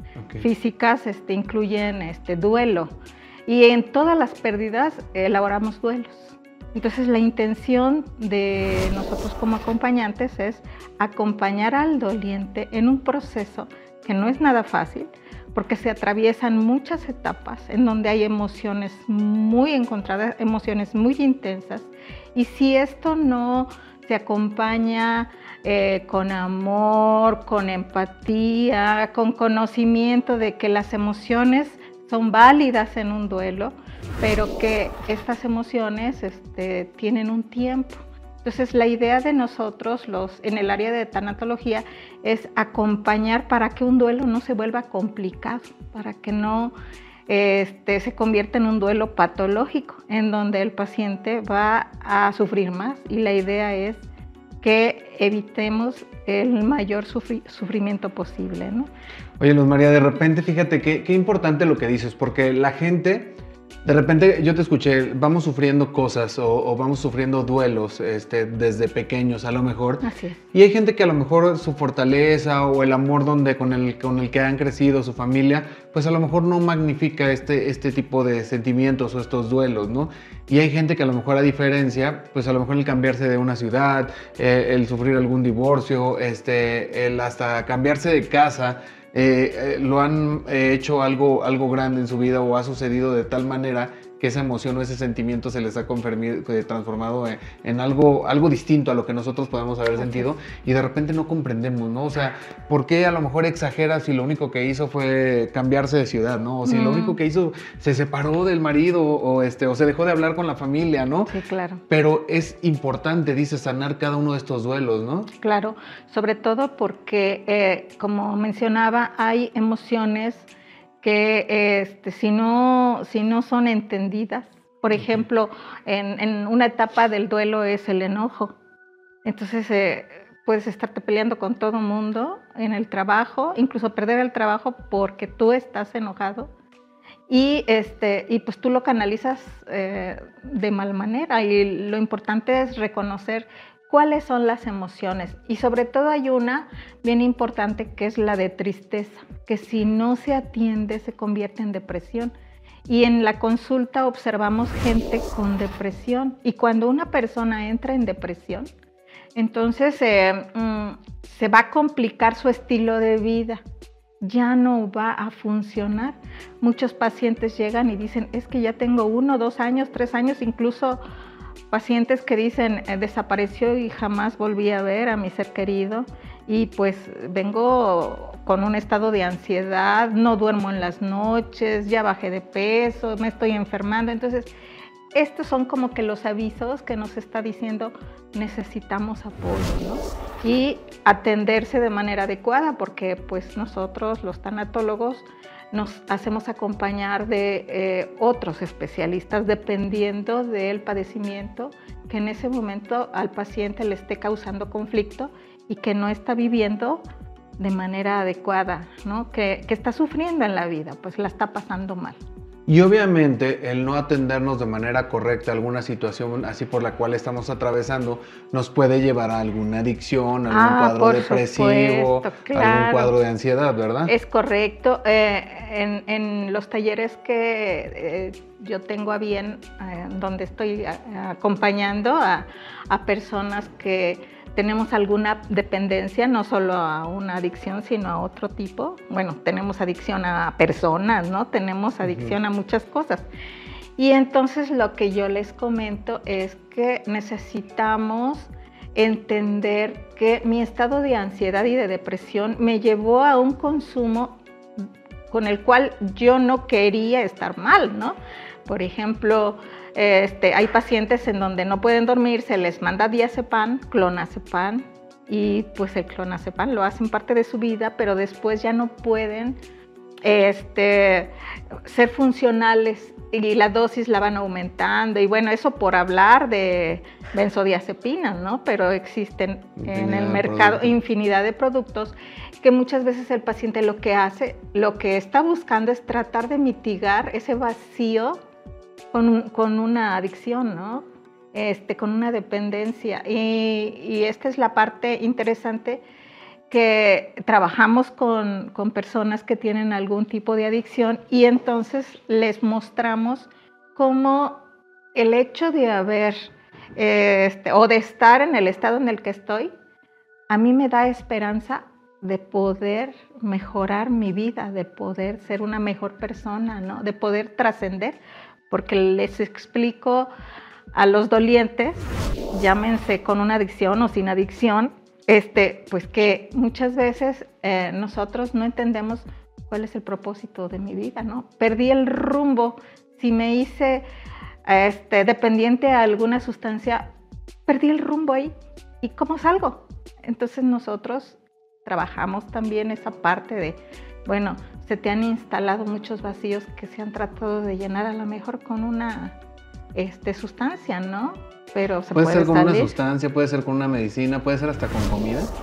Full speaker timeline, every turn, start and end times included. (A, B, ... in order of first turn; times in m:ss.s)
0:00.2-0:00.5 A
0:00.4-0:02.9 B
0:03.5-0:46.8 B
0:47.3-0:54.0 B
0:54.6-0:58.9 B
0:59.4-1:51.3 A
1:10.0-1:10.4 B
1:39.9-1:40.3 B
1:46.6-1:47.2 B
1:51.3-1:51.8 B
1:51.9-1:55.3 A
1:55.4-2:00.5 B
2:01.0-2:08.6 B
2:05.0-2:05.2 A
2:09.2-2:16.5 B
2:17.3-2:32.3 B
2:32.9-2:38.7 B
2:39.4-2:43.6 B
2:44.2-2:51.0 B
2:51.7-3:04.5 B
3:05.1-3:27.0 B
3:27.6-3:32.2 B
3:32.7-3:44.1 A
3:40.5-3:43.1 B
3:44.1-4:03.3 B
4:02.0-4:02.3 A
4:04.0-4:14.4 B
4:15.3-4:29.6 B
4:30.2-4:31.3 B
4:31.8-4:48.4 B
4:39.8-4:41.0 A
4:49.1-4:56.0 B
4:56.7-5:04.6 B
5:05.2-5:09.7 B
5:10.5-5:20.3 B
5:20.9-5:34.0 B
5:34.6-5:37.1 B
5:37.7-5:38.5 B
5:39.0-5:49.4 B
5:50.0-5:52.9 B
5:52.1-5:55.5 A